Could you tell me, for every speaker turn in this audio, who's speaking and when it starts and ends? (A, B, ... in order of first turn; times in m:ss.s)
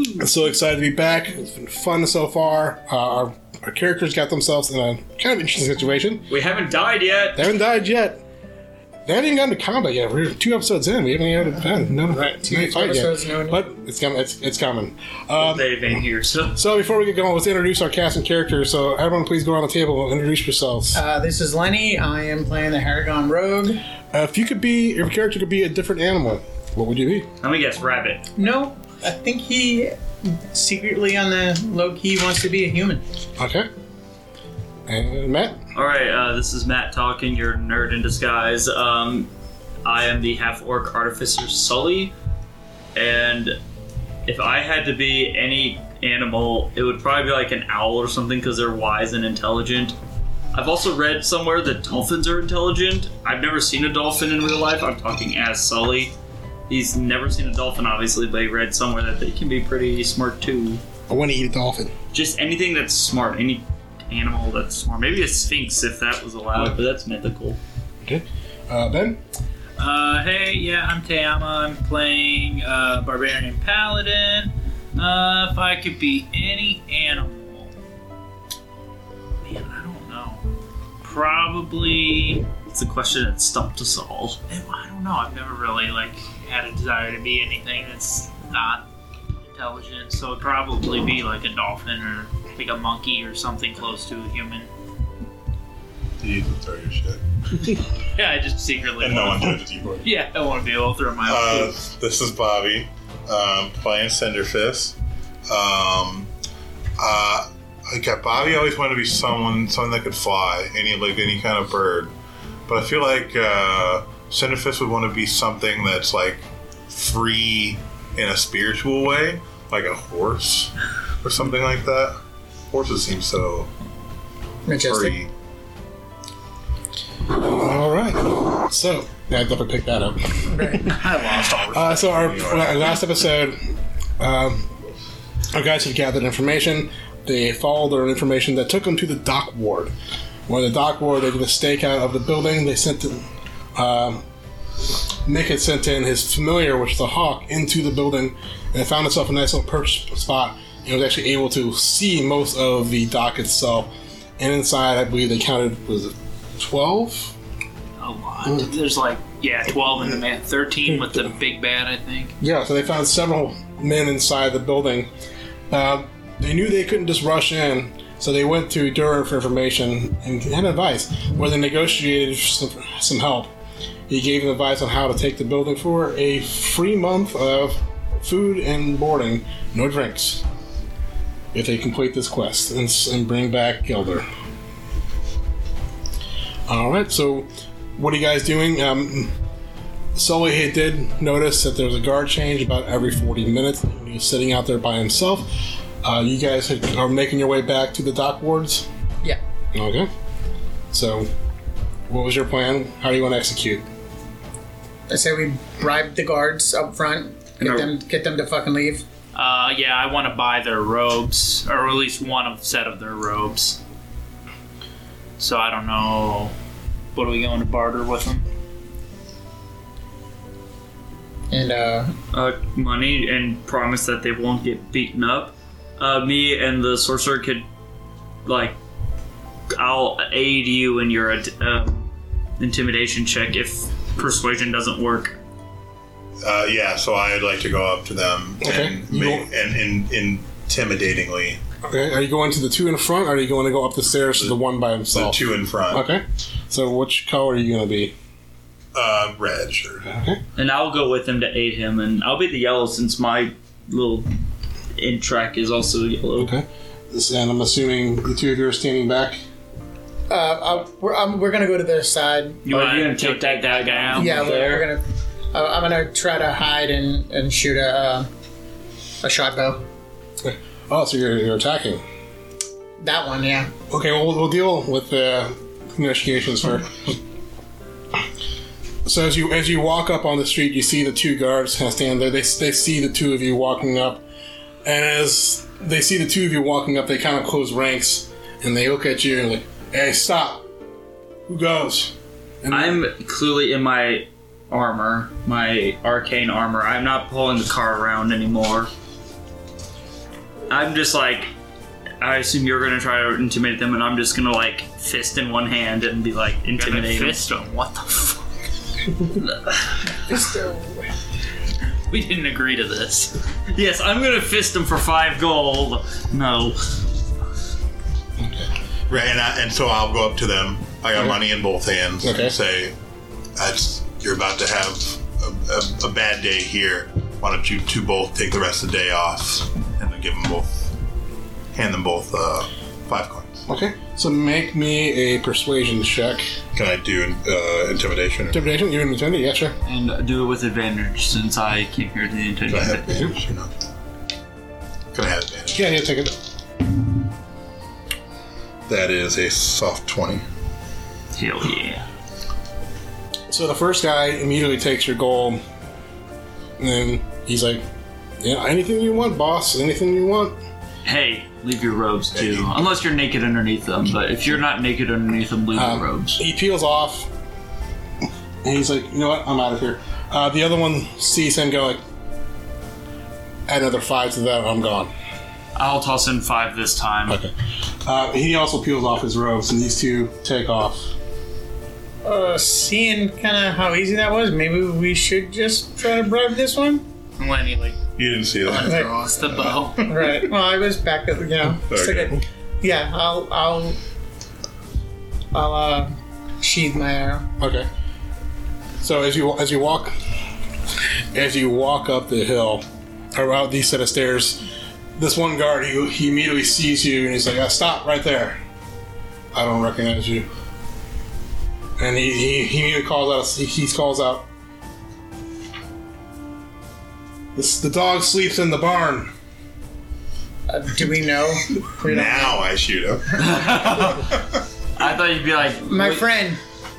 0:00.2-0:06.3 A
0:06.3-0:07.5 B
0:07.4-0:08.2 A
0:09.1-0:15.7 A
0:12.0-0:13.6 C
0:15.4-0:16.6 B
0:16.6-0:21.0 A
0:20.9-0:23.8 C
0:24.1-0:27.3 A
0:27.4-0:28.2 B
0:28.4-0:33.0 C
0:33.4-0:33.7 A
0:34.9-0:35.6 A
0:35.7-0:39.3 B
0:39.8-0:42.1 B
0:43.0-0:43.6 B
0:44.3-0:50.0 B
0:50.5-0:56.2 B
0:56.7-1:00.8 B
1:01.1-1:01.9 A
1:02.1-1:07.6 B
1:08.0-1:09.2 A
1:09.8-1:17.7 D
1:19.4-1:20.4 D
1:21.0-1:22.5 D
1:22.7-1:24.4 B
1:24.5-1:28.8 D
1:29.4-1:34.7 D
1:36.2-1:37.7 E
1:38.2-1:41.7 D
1:39.0-1:40.1 E
1:41.2-1:45.0 E
1:45.5-1:46.3 E
1:47.0-1:52.1 E
1:52.7-2:02.2 E
2:02.7-2:03.7 E
2:04.7-2:05.1 C
2:04.8-2:05.3 E
2:07.3-2:14.7 A
2:10.5-2:10.9 C
2:10.8-2:12.0 D
2:12.1-2:12.9 E
2:15.5-2:19.9 A
2:20.5-2:24.2 A
2:25.2-2:37.4 A
2:38.0-2:42.3 D
2:40.9-2:41.2 A
2:42.4-2:45.1 A
2:45.7-2:53.5 A
2:54.1-3:00.4 A
3:01.5-3:04.3 A
3:06.7-3:09.3 A
3:10.2-3:18.9 A
3:19.7-3:20.1 A
3:20.9-3:21.3 A
3:22.1-3:23.8 A
3:25.1-3:29.0 C
3:27.6-3:27.9 B
3:29.3-3:33.8 D
3:35.4-3:36.6 D
3:37.1-3:38.4 D
3:41.5-3:42.1 C
3:42.3-3:47.7 B
3:48.4-3:48.8 B
3:49.7-3:52.1 B
3:52.6-3:55.4 B
3:56.4-4:01.6 E
3:58.6-3:59.5 A
4:01.8-4:05.4 A
4:05.1-4:06.1 E
4:05.9-4:08.1 A
4:08.9-4:10.1 E
4:10.0-4:10.4 A
4:10.6-4:14.3 B
4:15.0-4:16.5 B
4:16.4-4:19.4 A
4:20.3-4:22.6 C
4:22.6-4:24.4 D
4:22.7-4:24.9 B
4:24.1-4:25.0 C
4:25.5-4:28.3 C
4:29.2-4:29.8 C
4:30.4-4:32.0 A
4:33.0-4:33.7 C
4:33.9-4:37.2 A
4:39.0-4:44.2 A
4:44.8-4:50.7 A
4:51.5-4:53.0 A
4:52.7-4:58.9 B
5:00.7-5:01.5 B
5:02.2-5:07.4 B
5:06.8-5:08.5 D
5:10.3-5:11.1 C
5:12.1-5:13.3 D
5:13.7-5:17.0 B
5:18.4-5:18.7 A
5:19.1-5:23.0 E
5:22.2-5:22.5 A
5:23.6-5:30.9 E
5:31.7-5:33.6 E
5:33.7-5:36.5 A
5:36.7-5:38.7 E
5:38.5-5:39.8 A
5:39.9-5:43.3 B
5:42.7-5:43.7 E
5:45.1-5:45.8 E
5:45.7-5:46.4 A
5:48.9-5:50.4 E
5:51.4-5:52.1 B
5:53.5-5:55.6 A
5:56.8-5:57.8 A
5:58.4-6:00.6 A
6:01.0-6:06.4 B
6:02.4-6:02.8 E
6:05.8-6:07.3 A
6:08.6-6:12.0 A
6:13.7-6:15.1 A
6:15.8-6:17.4 B
6:18.0-6:21.1 A
6:22.2-6:27.0 C
6:27.4-6:28.0 D
6:28.2-6:29.9 E
6:28.6-6:30.1 D
6:28.7-6:29.1 C
6:30.1-6:34.0 C
6:31.9-6:32.4 E
6:35.5-6:37.5 C
6:37.6-6:37.9 A
6:39.0-6:40.1 A
6:41.3-6:44.6 A
6:45.2-6:48.6 A
6:49.5-6:50.5 A
6:52.0-6:54.5 A
6:57.6-6:59.3 A
7:00.7-7:02.6 C
7:02.0-7:04.5 E
7:03.4-7:04.3 B
7:05.0-7:06.2 B
7:05.9-7:06.6 C